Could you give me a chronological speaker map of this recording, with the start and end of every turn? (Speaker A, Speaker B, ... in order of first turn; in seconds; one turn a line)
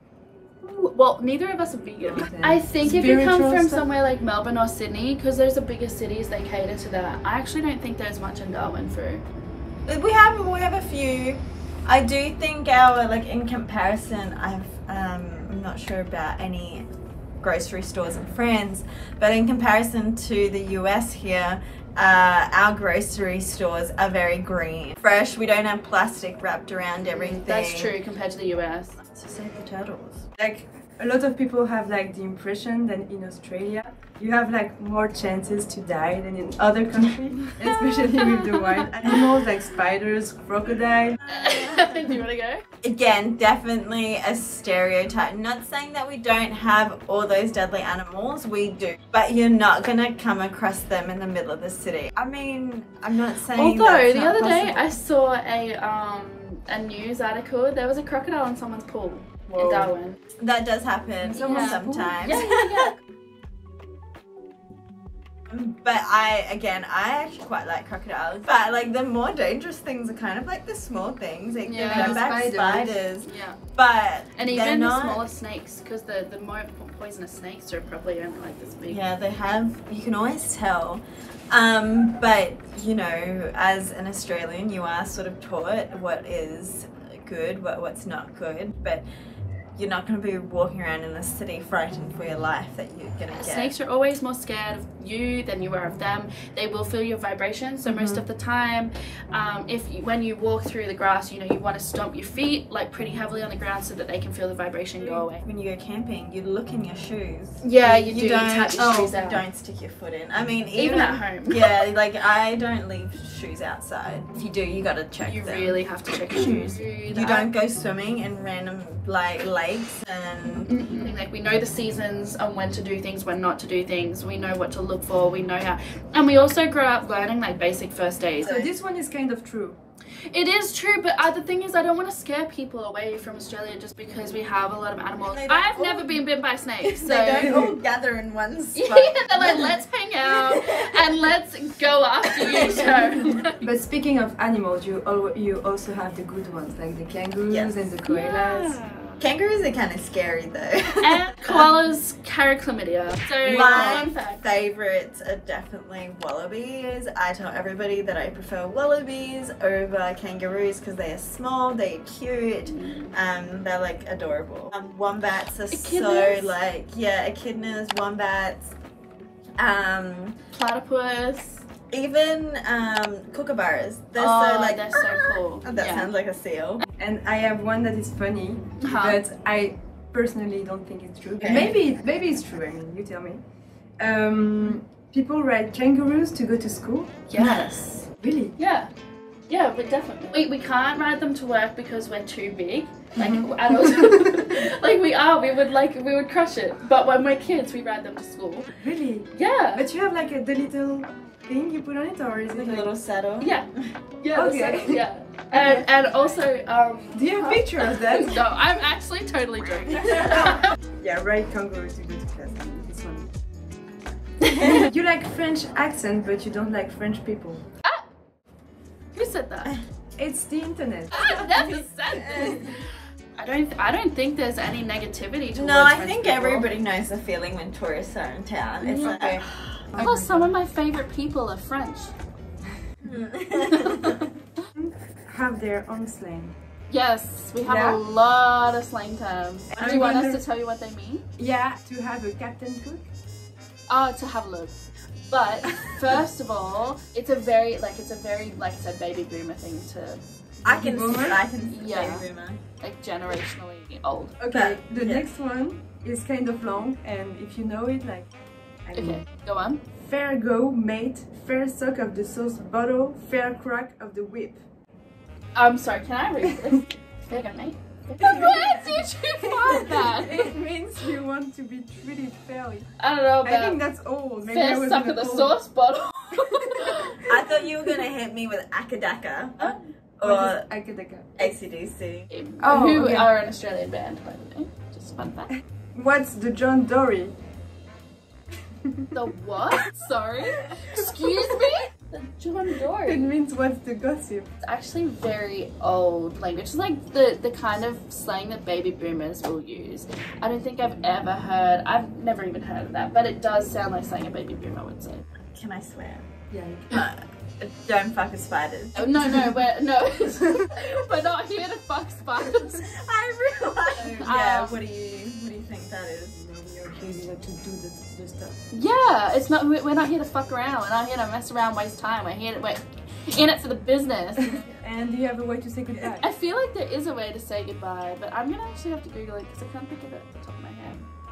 Speaker A: 0.6-9.2
Speaker B: 2.0-3.9
Speaker C: 9.9-16.9
Speaker C: 17.4-27.9
Speaker A: 27.1-29.0
Speaker C: 29.1-30.3
Speaker B: 30.4-41.2
Speaker A: 38.1-39.4
Speaker C: 41.2-42.2
Speaker A: 41.3-42.6
Speaker C: 42.8-55.0
Speaker A: 53.5-60.2
Speaker B: 59.5-59.9
Speaker C: 60.4-62.9
Speaker B: 61.3-62.1
Speaker A: 61.3-63.0
Speaker C: 65.5-75.2
Speaker A: 71.6-72.3
Speaker B: 71.9-73.0
Speaker A: 73.2-73.6
Speaker A: 74.3-79.0
Speaker C: 78.9-89.0
Speaker C: 89.8-93.7
Speaker A: 93.3-105.4
Speaker C: 97.9-98.2
Speaker C: 105.0-121.1
Speaker A: 107.6-109.4
Speaker A: 110.8-111.9
Speaker A: 115.2-117.5
Speaker A: 120.5-128.7
Speaker B: 128.4-129.8
Speaker A: 130.3-137.6
Speaker C: 135.3-136.2
Speaker C: 136.8-141.3
Speaker B: 137.3-137.8
Speaker A: 138.7-143.7
Speaker C: 142.3-143.5
Speaker B: 143.6-148.8
Speaker C: 147.5-147.8
Speaker A: 148.1-149.2
Speaker C: 149.2-151.7
Speaker A: 151.0-154.4
Speaker C: 153.4-168.7
Speaker A: 162.7-163.2
Speaker A: 165.7-166.6
Speaker C: 169.6-170.4
Speaker A: 170.5-171.7
Speaker C: 171.9-176.8
Speaker A: 174.2-176.1
Speaker B: 177.0-183.4
Speaker A: 178.8-179.2
Speaker C: 181.4-181.7
Speaker B: 184.0-187.3
Speaker A: 187.3-188.9
Speaker B: 188.2-188.6
Speaker A: 189.5-198.7
Speaker B: 193.2-194.6
Speaker B: 198.7-202.9
Speaker A: 199.3-199.9
Speaker C: 202.5-203.7
Speaker A: 203.4-203.7
Speaker A: 204.2-210.7
Speaker B: 204.3-205.9
Speaker B: 207.1-208.4
Speaker B: 210.2-213.3
Speaker B: 214.6-217.6
Speaker A: 219.1-219.8
Speaker B: 220.2-221.8
Speaker A: 221.1-226.7
Speaker C: 225.5-229.5
Speaker A: 228.8-232.1
Speaker B: 229.9-230.5
Speaker C: 233.0-234.3
Speaker A: 233.6-234.7
Speaker B: 234.8-236.6
Speaker A: 236.9-241.3
Speaker B: 237.6-238.0
Speaker B: 239.7-240.4
Speaker B: 241.4-243.1
Speaker A: 243.9-244.8
Speaker A: 245.3-250.2
Speaker C: 250.7-252.6
Speaker B: 250.7-251.4
Speaker A: 251.7-252.3
Speaker A: 252.8-254.4
Speaker B: 254.4-258.3
Speaker C: 254.5-255.3
Speaker B: 258.9-259.3
Speaker A: 259.0-259.8
Speaker B: 259.9-264.6
Speaker A: 265.6-270.5
Speaker B: 268.2-272.9
Speaker A: 273.0-273.8
Speaker B: 273.4-275.6
Speaker A: 274.4-277.4
Speaker B: 276.4-277.1
Speaker C: 277.1-280.7
Speaker B: 279.6-281.5
Speaker C: 281.4-282.3
Speaker A: 282.3-285.5
Speaker B: 282.6-283.3
Speaker B: 285.9-287.3
Speaker B: 288.8-289.1
Speaker A: 289.1-293.4
Speaker B: 290.9-291.2
Speaker B: 293.0-294.5
Speaker A: 294.6-305.2
Speaker C: 305.5-306.3
Speaker B: 306.5-307.1
Speaker C: 306.9-309.6
Speaker A: 308.9-312.9
Speaker C: 312.8-316.4
Speaker A: 313.9-314.8
Speaker B: 316.3-318.6
Speaker A: 318.7-324.7
Speaker B: 324.5-326.3
Speaker A: 326.2-331.1